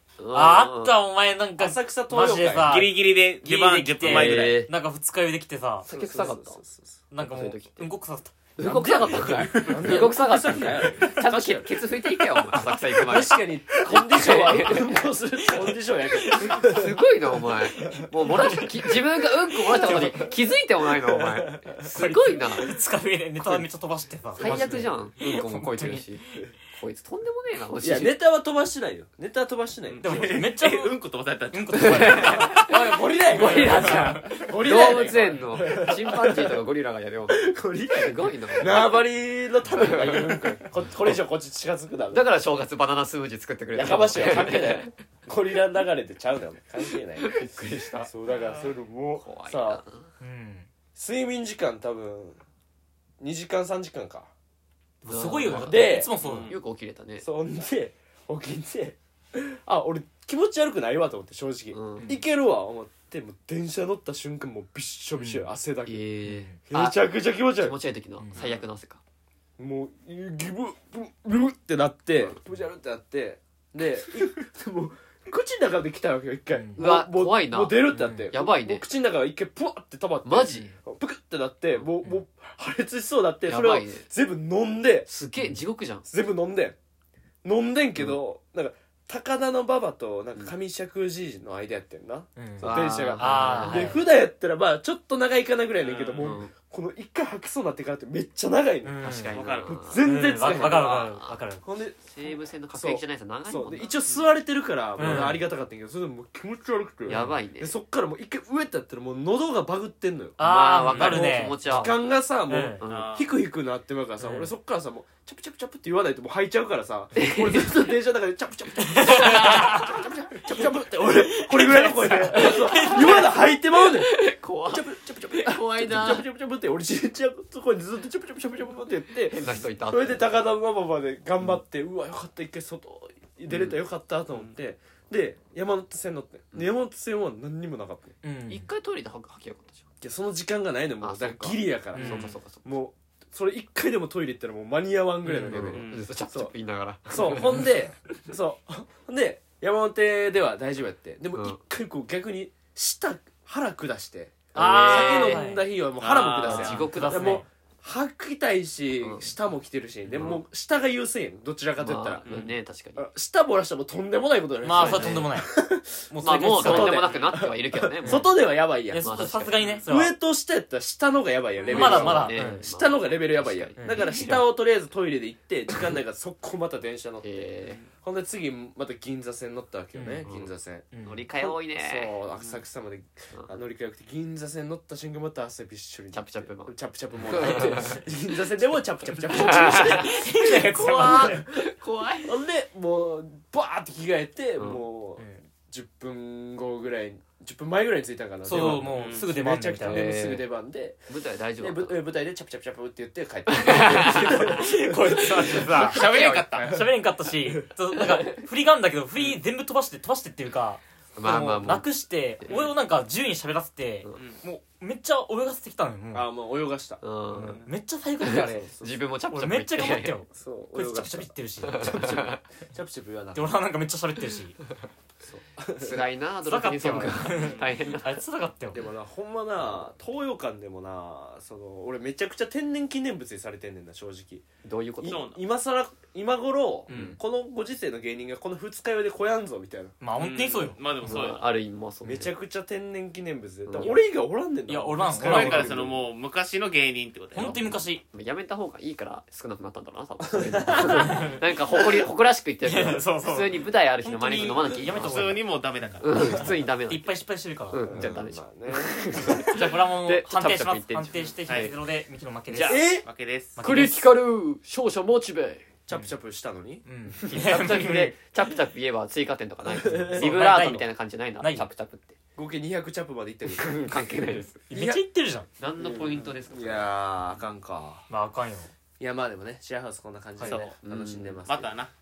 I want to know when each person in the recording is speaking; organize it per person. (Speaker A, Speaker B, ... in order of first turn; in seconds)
Speaker A: 0.2-0.9, 4.0-4.7, 5.8-6.6, 7.2-7.9, 8.6-15.1, 16.5-22.7, 24.4-28.1, 31.7-39.0, 39.8-40.3, 42.1-44.9, 47.2-48.1, 49.2-50.1, 55.0-57.2, 61.7-62.1, 65.8-67.0, 67.5-69.0, 76.8-78.8, 80.2-80.7, 83.5-84.1, 85.1-86.0, 92.6-94.1, 96.2-96.5, 99.0-101.4, 102.0-104.0, 105.0-105.4, 107.1-107.7, 110.4-112.0, 112.8-113.1, 117.2-117.8, 119.1-119.7, 122.3-126.2, 129.3-130.3, 133.5-133.8, 138.5-139.8, 141.0-142.6, 145.5-147.7, 154.5-155.4, 156.4-157.4, 159.0-159.3, 160.1-160.4, 161.8-163.1, 164.8-165.2, 166.2-168.3, 169.0-169.6, 171.6-174.3, 177.2-177.8, 180.2-180.5, 181.0-182.1, 186.1-186.7, 187.3-188.0, 189.3-192.3, 194.6-194.8, 199.8-200.4, 201.1-202.0, 203.5-204.6, 205.9-206.5, 208.0-208.3, 211.2-211.9, 217.0-217.6, 218.2-220.2, 221.6-222.4, 225.8-228.2, 234.6-235.2, 236.9-237.2, 241.0-242.3, 243.7-244.0, 247.3-255.2, 256.0-257.2, 257.7-261.7, 263.6-265.6, 267.2-272.1, 273.5-274.6, 275.6-276.9, 280.8-281.4
Speaker B: 0.3-5.9, 7.1-10.1, 13.0-13.3, 13.9-14.8, 16.1-16.8, 17.7-19.0, 19.7-20.3, 21.9-26.1, 30.0-30.9, 31.5-32.7, 33.4-35.9, 39.7-40.0, 50.2-50.7, 55.0-56.5, 65.2-65.5, 66.3-66.6, 76.5-76.8, 77.9-78.3, 85.4-85.6, 92.4-94.0, 98.8-99.4, 100.0-101.6, 105.0-105.4, 110.4-111.9, 112.5-112.8, 114.2-114.5, 119.0-119.9, 120.5-123.3, 138.2-138.7, 141.9-142.3, 145.2-145.8, 154.6-155.7, 156.4-157.5, 164.6-165.5, 166.1-167.1, 168.0-168.3, 168.9-170.1, 171.7-172.7, 173.8-174.4, 179.9-180.3, 180.9-181.2, 189.5-191.4, 198.4-200.1, 204.2-216.3, 217.3-218.7, 219.3-222.2, 223.3-224.6, 226.5-228.8, 240.0-241.2, 244.7-245.8, 247.3-248.0, 250.8-252.0, 252.6-258.2, 259.4-263.0, 263.6-264.1, 266.8-268.2, 269.8-270.9, 271.4-271.7, 274.7-275.5, 278.1-278.7
Speaker C: 1.6-2.7, 5.8-7.0, 8.7-17.0, 17.8-18.7, 19.6-20.3, 20.9-21.9, 24.3-24.8, 27.8-30.4, 32.5-36.6, 37.3-42.3, 43.7-49.8, 50.9-52.4, 53.2-54.3, 55.5-56.1, 57.2-66.0, 66.7-67.8, 69.6-85.1, 86.1-86.8, 87.4-101.1, 101.6-110.4, 110.9-124.1, 124.7-138.2, 140.0-146.5, 147.1-162.2, 163.0-165.9, 166.5-169.3, 169.8-177.4, 177.9-180.9, 181.4-191.7, 192.2-201.0, 201.6-205.9, 206.5-207.6, 216.1-217.0, 218.3-219.0, 220.3-223.6, 225.2-226.1, 228.7-234.4, 235.0-239.9, 242.0-246.0, 250.3-251.3, 257.9-259.6, 262.5-263.0, 265.9-266.8, 269.7-270.4, 272.4-273.8, 274.7-275.0, 275.8-278.1, 279.0-281.7
Speaker D: 2.7-4.7, 29.9-32.5, 48.3-48.7, 56.2-56.5, 95.8-96.3, 99.3-99.8, 110.8-111.2, 112.8-113.3, 145.7-146.1, 156.0-156.9, 162.2-162.5, 164.8-165.1, 169.6-169.8, 182.3-182.6, 198.5-199.3, 205.6-206.8, 217.4-217.7, 227.4-227.7, 235.1-235.4, 236.9-237.2, 240.2-241.4, 245.2-247.6, 254.4-256.5, 261.4-261.7, 262.6-263.6, 276.1-276.3, 280.4-280.7, 281.4-281.9